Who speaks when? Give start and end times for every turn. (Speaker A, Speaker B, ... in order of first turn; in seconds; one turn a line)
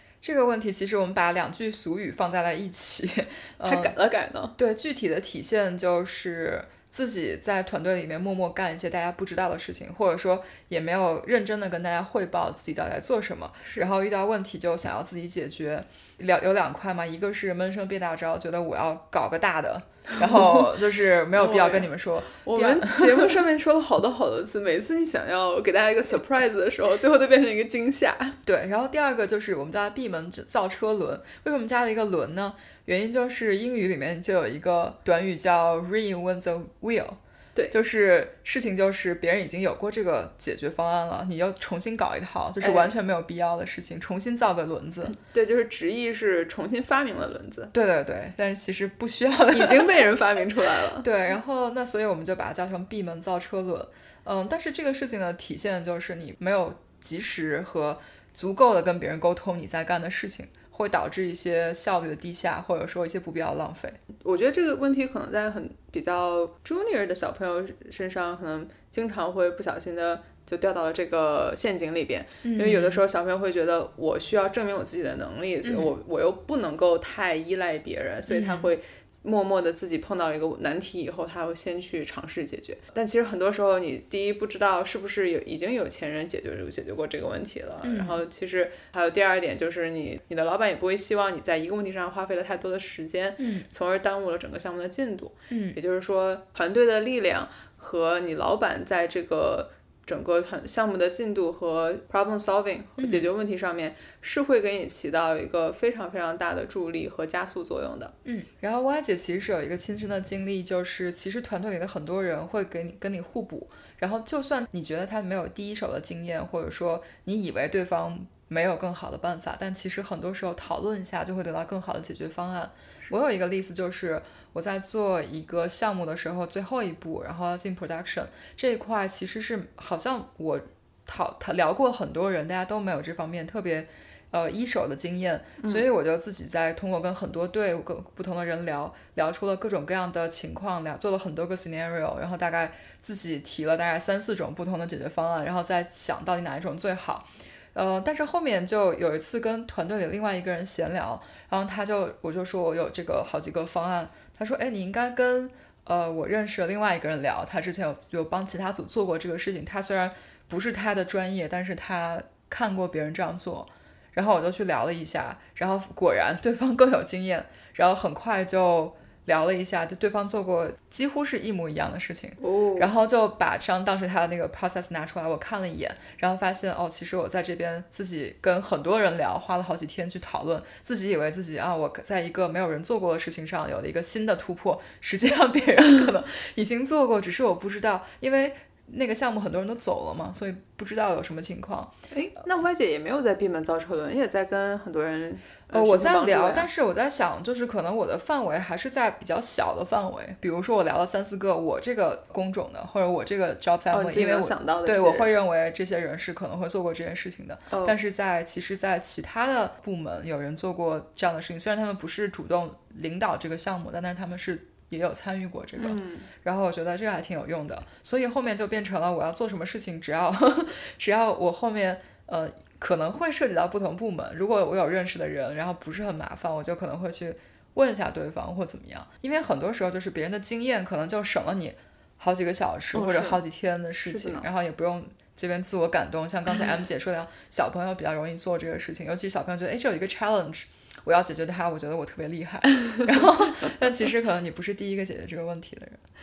Speaker A: 0.2-4.0
Speaker B: 3.6-4.5
Speaker A: 4.6-23.4
Speaker B: 20.2-20.6
Speaker B: 21.4-21.9
Speaker B: 22.4-28.4
Speaker A: 28.4-37.2
Speaker A: 37.7-45.2
Speaker B: 42.6-42.9
Speaker B: 45.2-47.7
Speaker A: 47.7-50.0
Speaker B: 49.5-51.1
Speaker A: 51.0-64.0
Speaker B: 64.2-108.2
Speaker A: 72.4-73.0
Speaker A: 75.6-75.9
Speaker A: 78.3-78.7
Speaker A: 87.8-88.2
Speaker A: 93.4-93.7
Speaker A: 95.5-95.8
Speaker A: 103.0-103.3
Speaker A: 108.2-191.9
Speaker B: 135.6-135.8
Speaker B: 172.4-172.9
Speaker B: 192.1-196.7
Speaker A: 195.7-246.0
Speaker B: 203.9-205.3
Speaker B: 207.7-208.0
Speaker B: 215.8-216.3
Speaker B: 232.9-233.4
Speaker B: 234.1-234.5